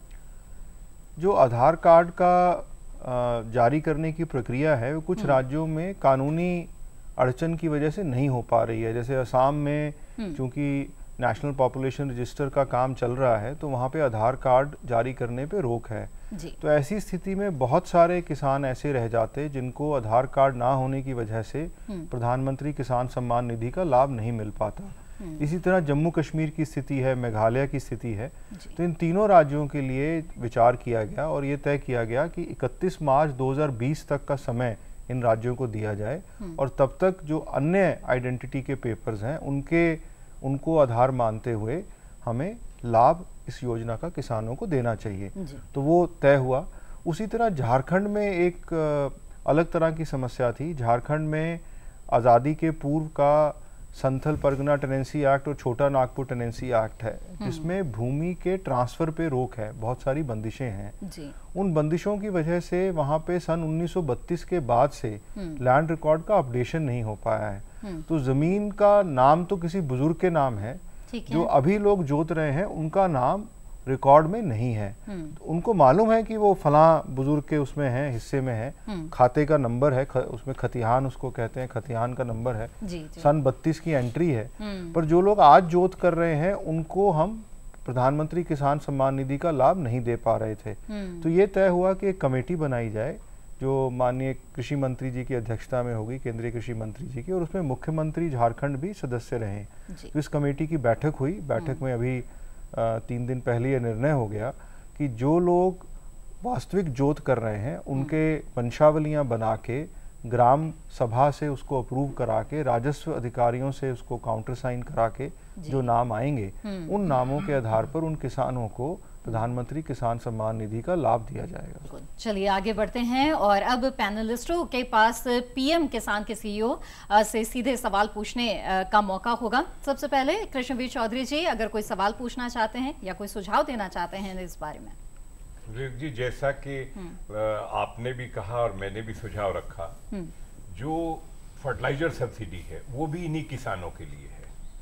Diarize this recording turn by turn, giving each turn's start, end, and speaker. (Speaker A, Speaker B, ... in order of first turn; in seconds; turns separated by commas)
Speaker A: 1.2-61.0, Speaker B: 16.3-16.6, Speaker B: 25.2-25.4, Speaker B: 45.4-45.6, Speaker B: 57.4-57.7, Speaker B: 61.0-61.3, Speaker A: 61.5-105.9, Speaker B: 71.1-71.5, Speaker B: 75.1-75.4, Speaker B: 82.8-83.3, Speaker B: 84.6-85.0, Speaker B: 90.9-91.3, Speaker A: 106.4-121.9, Speaker B: 116.6-117.0, Speaker B: 121.9-134.9, Speaker C: 135.7-139.9, Speaker C: 140.7-144.5